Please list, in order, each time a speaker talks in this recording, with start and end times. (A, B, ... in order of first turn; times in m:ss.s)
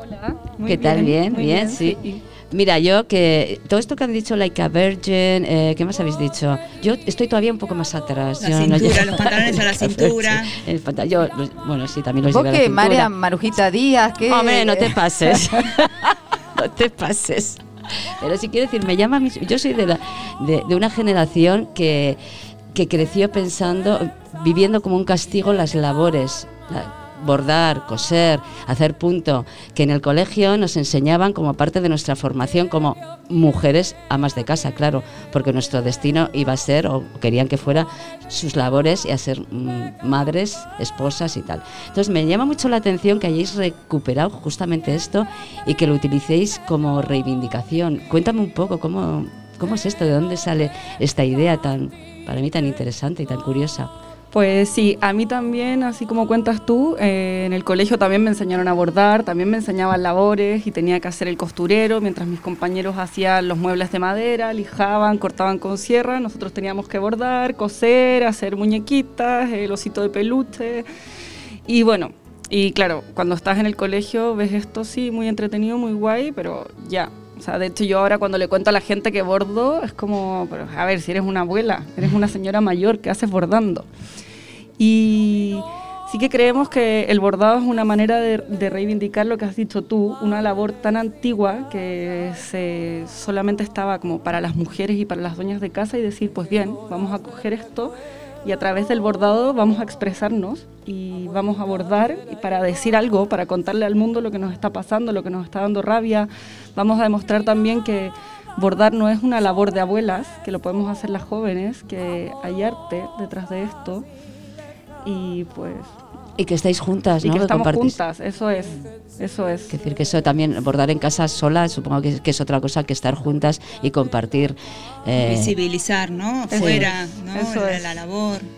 0:00.4-0:02.2 A
0:00.6-0:02.0 B
0:02.5-0:13.1 B
0:08.4-0:10.5 C
0:12.3-0:15.4 D
0:14.3-0:15.8 B
0:16.6-0:17.6 B
0:18.2-0:22.2 B
0:22.7-0:53.9 B
0:54.3-1:10.8 A
1:11.7-1:23.8 A
1:24.8-1:37.9 A
1:38.4-1:54.0 A
1:55.0-1:55.9 A
1:56.4-1:58.0 B
1:57.2-1:59.7 A
1:59.7-2:05.5 B
2:05.2-2:08.5 C
2:06.5-2:06.8 B
2:06.6-2:07.8 A